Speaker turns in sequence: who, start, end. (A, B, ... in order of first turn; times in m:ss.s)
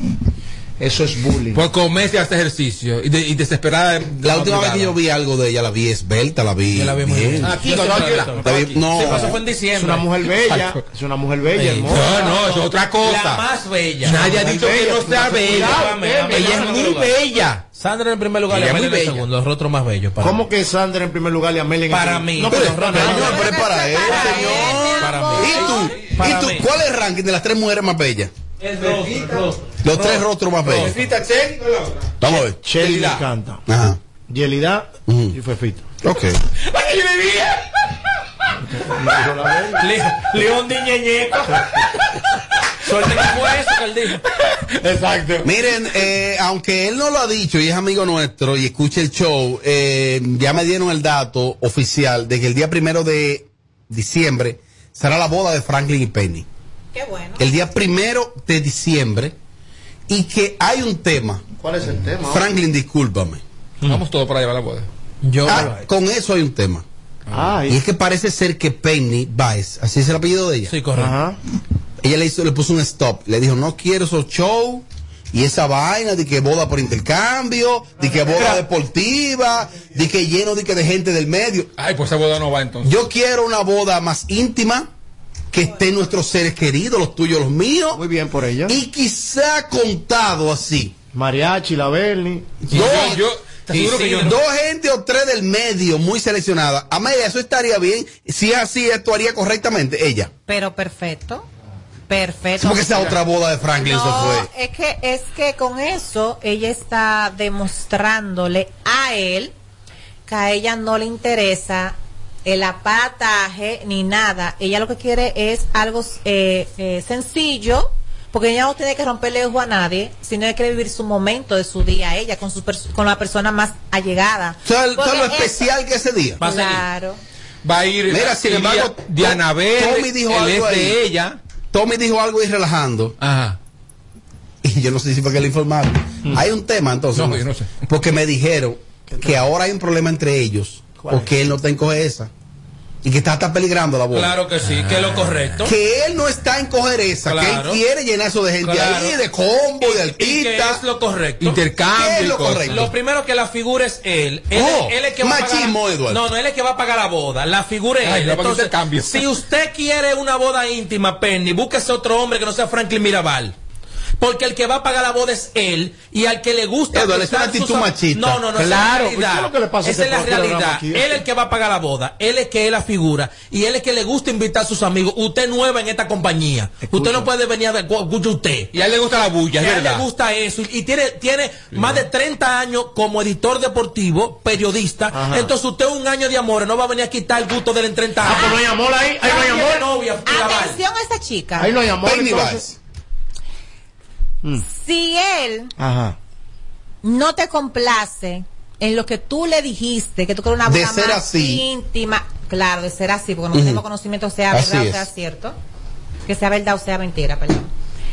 0:00.8-0:01.6 A
0:01.5-0:05.0 B
0:04.2-0:07.6 C
0:06.7-0:10.1 D
0:07.4-0:08.6 B
0:07.7-0:08.2 A
0:08.4-0:09.4 C
0:09.7-0:12.2 A
0:10.5-0:10.8 B
0:11.6-0:14.3 D
0:11.8-0:13.4 B
0:14.0-0:17.6 B
0:14.2-0:16.9 A
0:15.4-0:17.1 D
0:17.7-0:20.4 D
0:18.5-0:19.2 B
0:20.2-0:23.6 A
0:21.9-0:23.5 D
0:22.5-0:28.3 C
0:23.1-0:26.0 E
0:24.0-0:26.6 D
0:28.6-0:30.0 D
0:28.8-0:29.4 B
0:29.8-0:30.9 C
0:30.7-0:33.2 B
0:32.2-0:32.6 C
0:32.6-0:33.6 A
0:33.7-0:34.0 C
0:34.3-0:35.8 A
0:35.1-0:35.3 C
0:36.0-0:36.4 C
0:36.6-0:37.6 B
0:38.7-0:39.9 A
0:39.8-0:41.6 D
0:42.8-0:44.2 D
0:44.8-0:45.4 B
0:45.4-0:56.4 C
0:56.9-0:57.5 E
0:57.4-0:59.3 C
1:00.1-1:01.4 C
1:01.6-1:02.5 A
1:02.3-1:03.4 C
1:03.8-1:04.9 B
1:05.2-1:05.8 D
1:05.4-1:06.8 C
1:07.3-1:07.8 A
1:07.7-1:10.7 C
1:10.7-1:11.2 D
1:11.0-1:11.4 A
1:12.0-1:21.7 C
1:21.8-1:22.9 B
1:22.8-1:24.9 C
1:25.5-1:28.0 C
1:27.9-1:28.8 A
1:28.7-1:30.9 C
1:31.1-1:32.6 A
1:32.7-1:40.3 C
1:32.7-1:34.4 B
1:33.8-1:34.3 D
1:40.5-1:41.4 E
1:42.1-1:43.2 E
1:42.6-1:44.5 C
1:43.8-1:49.5 E
1:50.3-2:05.6 E
2:04.6-2:06.4 C
2:06.4-2:06.8 D
2:06.4-2:07.2 E
2:07.6-2:11.4 B
2:08.1-2:11.0 C
2:11.7-2:13.2 C
2:13.2-2:13.6 B
2:14.6-2:22.3 C
2:17.1-2:17.7 B
2:19.1-2:19.4 A
2:21.0-2:21.3 A
2:23.0-2:24.4 C
2:24.1-2:25.7 D
2:25.6-2:30.8 C
2:27.2-2:27.8 D
2:28.6-2:29.2 D
2:29.8-2:31.6 D
2:31.4-2:32.9 B
2:31.9-2:32.9 C
2:32.7-2:43.5 D
2:34.5-2:36.2 C
2:38.0-2:39.4 B
2:44.2-2:58.7 D
2:46.9-2:48.4 C
2:48.5-2:51.2 A
2:56.9-2:57.3 A
2:58.7-3:00.0 B
2:59.6-3:08.6 D
3:05.1-3:05.5 A
3:08.2-3:09.9 A
3:08.3-3:08.6 E
3:09.2-3:10.8 D
3:10.2-3:11.8 E
3:11.6-3:12.6 A
3:12.0-3:12.8 C
3:14.6-3:15.7 E
3:15.8-3:16.2 A
3:17.0-3:25.6 E
3:20.6-3:21.6 C
3:23.5-3:23.8 C
3:24.5-3:25.1 C
3:26.2-3:27.7 E